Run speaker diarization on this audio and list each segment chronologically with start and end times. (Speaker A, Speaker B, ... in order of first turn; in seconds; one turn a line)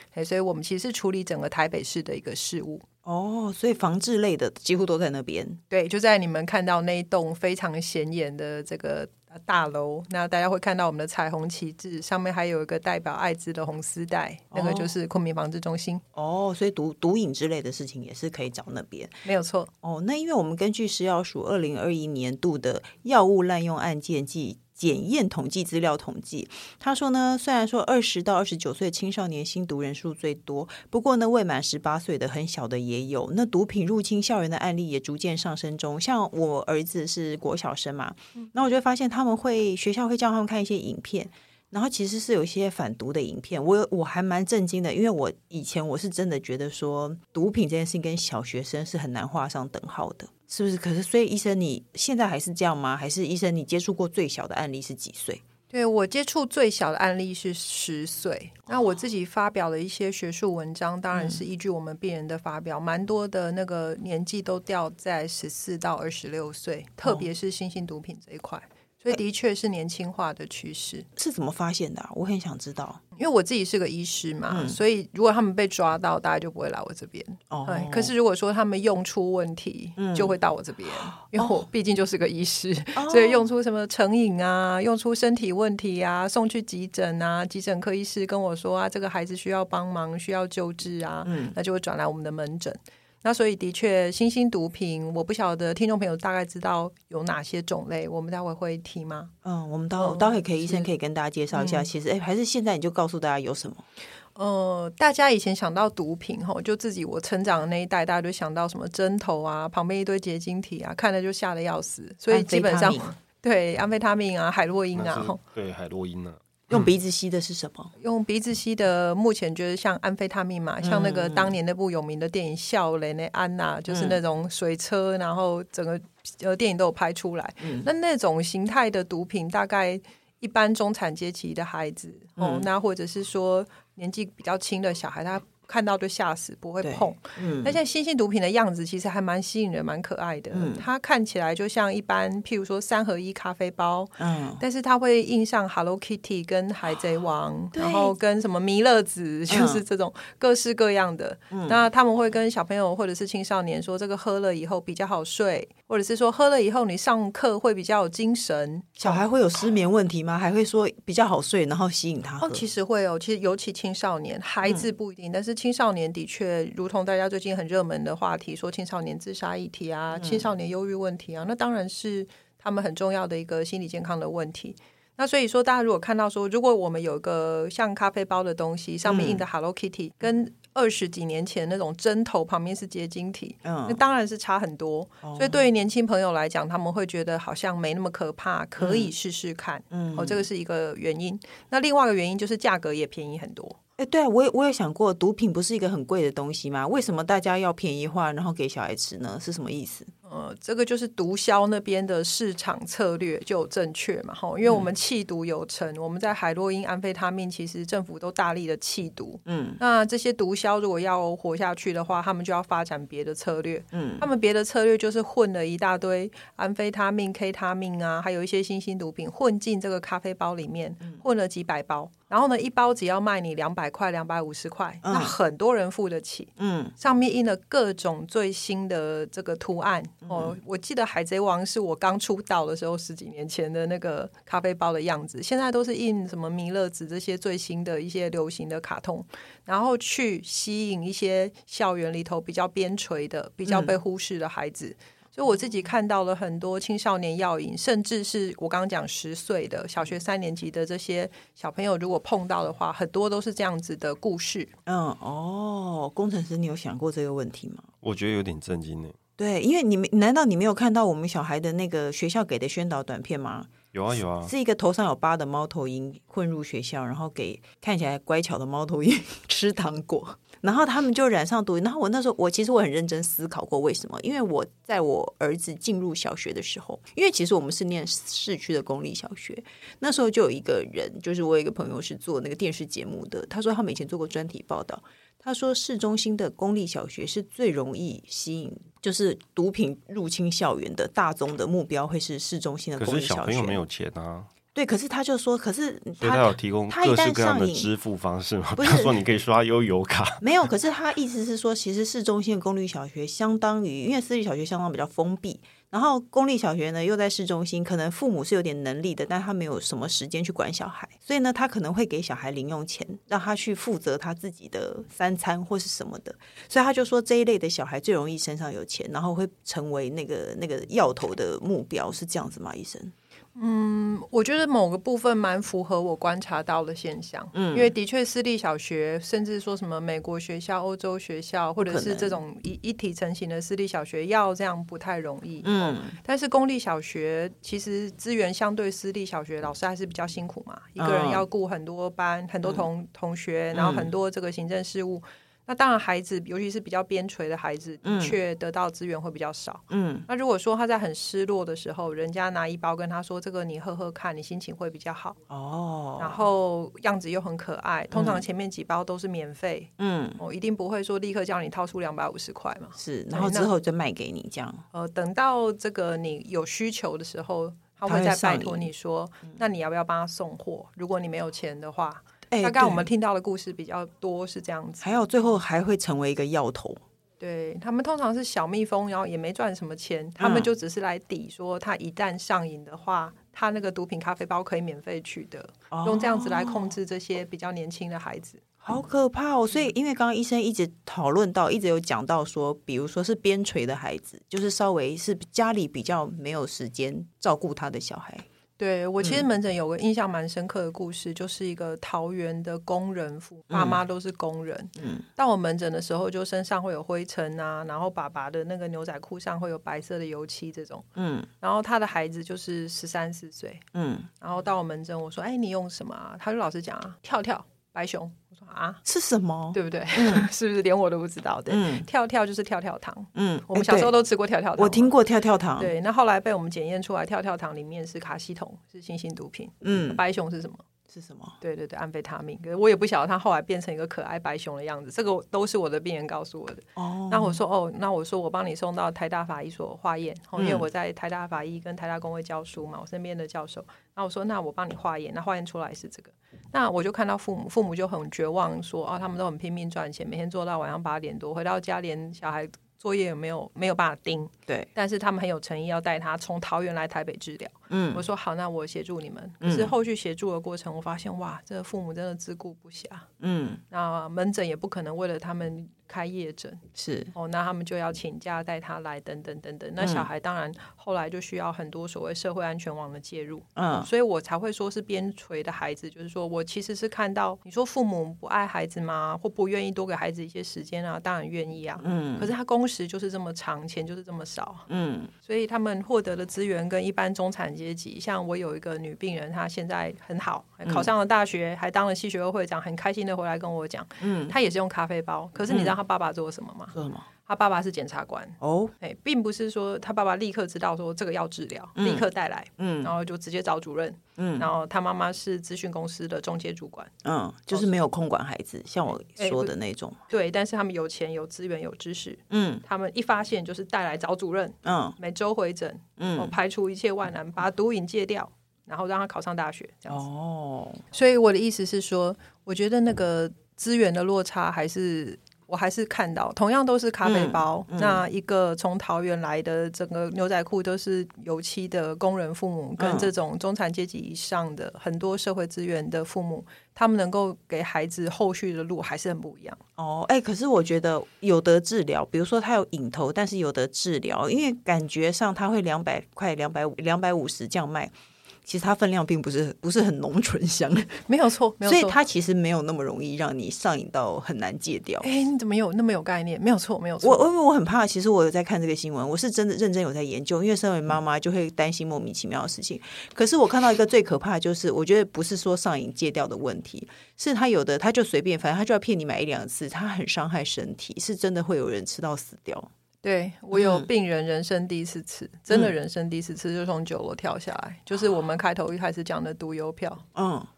Speaker A: 0.1-2.8
Speaker B: 3.0-5.6
Speaker A: 5.7-16.0
Speaker B: 14.5-14.9
Speaker B: 16.1-19.2
Speaker A: 19.2-19.7
Speaker B: 19.8-55.4
Speaker A: 55.7-71.1
Speaker B: 61.1-61.4
Speaker B: 67.0-67.3
Speaker B: 71.2-73.0
Speaker A: 73.2-99.3
Speaker B: 74.5-74.8
Speaker B: 77.5-78.1
Speaker B: 80.0-80.3
Speaker B: 80.9-81.6
Speaker B: 83.0-83.5
Speaker B: 91.2-91.5
Speaker B: 99.4-103.8
Speaker A: 100.0-100.9
Speaker A: 101.5-101.9
Speaker A: 104.3-115.4
Speaker B: 112.3-113.1
Speaker C: 114.9-116.9
Speaker B: 116.7-117.9
Speaker A: 118.0-159.2
Speaker B: 120.8-121.5
Speaker B: 123.9-124.2
Speaker B: 127.6-127.9
Speaker B: 132.4-132.7
Speaker B: 136.8-137.8
Speaker B: 140.5-140.9
Speaker B: 144.2-144.6
Speaker B: 147.7-148.1
Speaker B: 149.5-149.8
Speaker B: 151.5-151.8
Speaker B: 159.0-162.7
Speaker A: 162.4-193.8
Speaker B: 170.1-170.5
Speaker B: 179.0-179.4
Speaker B: 183.6-184.0
Speaker B: 185.2-185.6
Speaker B: 188.8-189.1
Speaker B: 189.9-190.5
Speaker B: 194.0-200.1
Speaker A: 200.2-254.7
Speaker B: 209.4-209.8
Speaker B: 213.9-214.3
Speaker B: 225.0-225.4
Speaker B: 226.6-226.9
Speaker B: 230.2-230.6
Speaker B: 243.7-243.9
Speaker B: 254.8-257.9
Speaker C: 258.0-259.2
Speaker B: 259.4-293.8
Speaker C: 263.9-264.5
Speaker C: 293.0-294.5
Speaker B: 294.7-297.9
Speaker C: 296.2-300.4
Speaker B: 298.8-299.1
Speaker B: 300.4-323.1
Speaker A: 323.6-355.4
Speaker B: 327.5-327.9
Speaker B: 331.8-332.4
Speaker B: 335.6-336.2
Speaker B: 341.0-341.4
Speaker B: 343.7-344.1
Speaker B: 348.0-348.4
Speaker B: 349.9-350.3
Speaker B: 355.5-356.4
Speaker A: 356.2-363.7
Speaker B: 358.1-358.4
Speaker B: 360.0-360.4
Speaker B: 362.9-364.8
Speaker A: 364.9-375.1
Speaker B: 368.1-368.9
Speaker B: 372.5-373.1
Speaker B: 375.0-377.0
Speaker A: 377.4-388.6
Speaker B: 380.4-380.7
Speaker B: 385.9-386.9
Speaker B: 388.8-398.4
Speaker A: 398.8-411.1
Speaker B: 399.2-399.4
Speaker B: 403.7-404.0
Speaker B: 404.9-405.2
Speaker B: 411.1-411.5
Speaker A: 411.6-413.8
Speaker B: 413.9-414.3
Speaker A: 414.4-419.0
Speaker B: 419.0-420.5
Speaker A: 419.7-425.1
Speaker B: 421.7-422.1
Speaker B: 423.3-424.1
Speaker B: 424.8-425.9
Speaker A: 425.8-430.8
Speaker B: 429.8-430.2
Speaker B: 431.1-431.6
Speaker A: 431.6-463.3
Speaker B: 436.9-437.6
Speaker B: 440.6-440.9
Speaker B: 457.9-458.2
Speaker B: 459.6-459.9
Speaker B: 463.4-463.8
Speaker A: 463.9-466.8
Speaker B: 466.9-467.3
Speaker A: 467.3-484.9
Speaker B: 470.0-470.3
Speaker B: 473.8-474.1
Speaker B: 482.0-482.5
Speaker B: 484.9-485.3
Speaker A: 485.4-496.9
Speaker B: 490.8-491.1
Speaker B: 494.2-494.6
Speaker B: 495.7-495.9
Speaker B: 496.9-497.2
Speaker A: 497.4-507.1
Speaker B: 498.6-498.9
Speaker B: 501.9-502.2
Speaker B: 502.8-503.1
Speaker B: 504.4-504.7
Speaker B: 507.2-510.2
Speaker A: 509.4-509.7
Speaker A: 510.3-520.2
Speaker B: 512.5-512.8
Speaker B: 514.8-515.1
Speaker B: 516.2-516.5
Speaker B: 520.1-521.0
Speaker A: 521.1-539.8
Speaker B: 527.2-528.2
Speaker B: 533.0-533.3
Speaker B: 540.0-548.1
Speaker B: 548.6-551.2
Speaker A: 551.3-552.1
Speaker B: 551.8-555.3
Speaker A: 555.2-557.5
Speaker B: 557.2-572.9
Speaker A: 573.2-580.2
Speaker B: 573.7-574.1
Speaker B: 580.3-580.7